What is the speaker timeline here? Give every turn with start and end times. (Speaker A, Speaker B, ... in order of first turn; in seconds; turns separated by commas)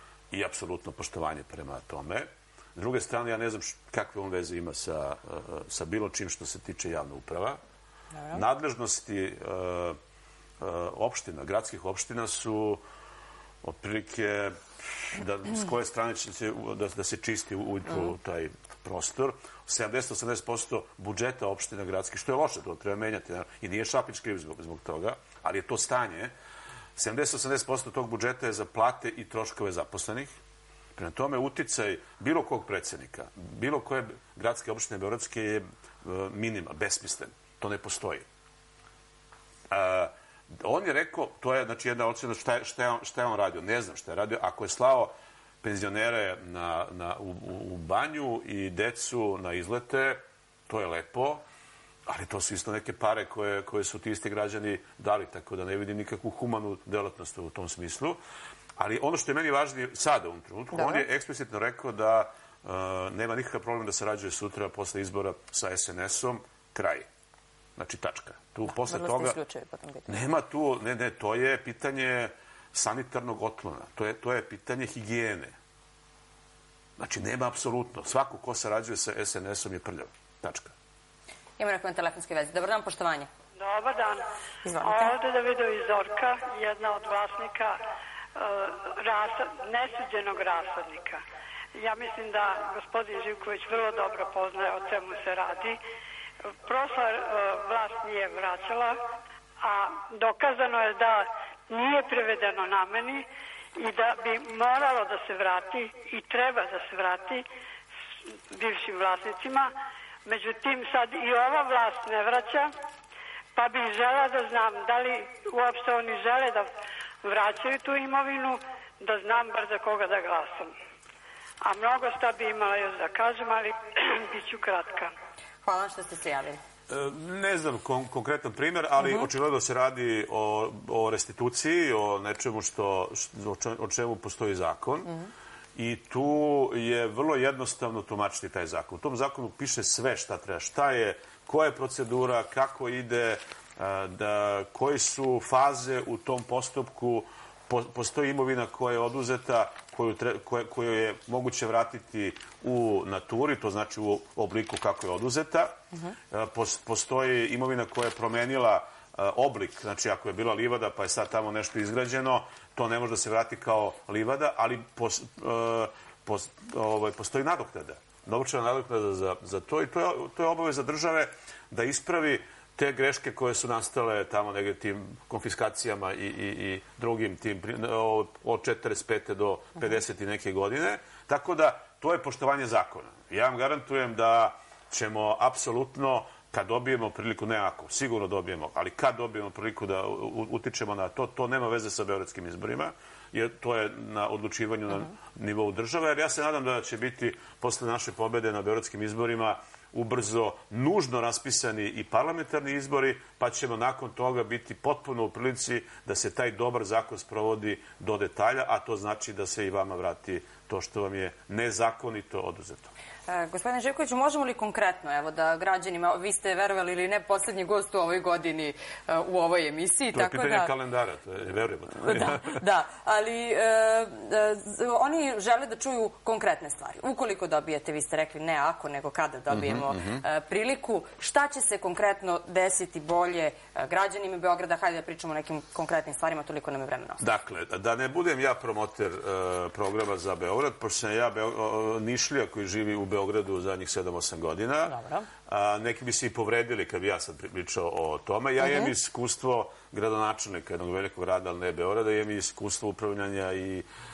Speaker A: 0.3-7.6, Speaker A: 8.3-10.0, Speaker A: 10.6-12.8, Speaker A: 13.6-26.3, Speaker A: 27.0-30.3, Speaker A: 31.0-38.2, Speaker A: 39.7-51.4, Speaker A: 52.1-58.2, Speaker A: 58.8-67.1, Speaker B: 60.7-61.0, Speaker A: 67.8-69.4, Speaker B: 68.7-70.2, Speaker A: 70.1-75.5, Speaker A: 77.0-80.7, Speaker B: 81.6-83.3, Speaker C: 83.6-84.3, Speaker B: 84.7-85.1, Speaker C: 84.8-87.8, Speaker C: 88.3-91.2, Speaker C: 91.7-95.8, Speaker C: 96.7-99.0, Speaker C: 99.6-103.2, Speaker C: 103.8-107.5, Speaker C: 108.5-109.7, Speaker C: 110.2-112.7, Speaker C: 113.5-116.7, Speaker C: 117.2-120.7, Speaker C: 121.6-125.1, Speaker B: 125.6-126.6, Speaker A: 126.9-135.2, Speaker A: 135.8-155.8, Speaker A: 156.3-212.9, Speaker B: 213.3-220.7, Speaker A: 220.1-222.6, Speaker B: 222.0-237.2, Speaker A: 229.5-230.2, Speaker A: 237.2-244.9, Speaker B: 244.9-245.3, Speaker A: 245.5-253.8, Speaker B: 248.6-248.9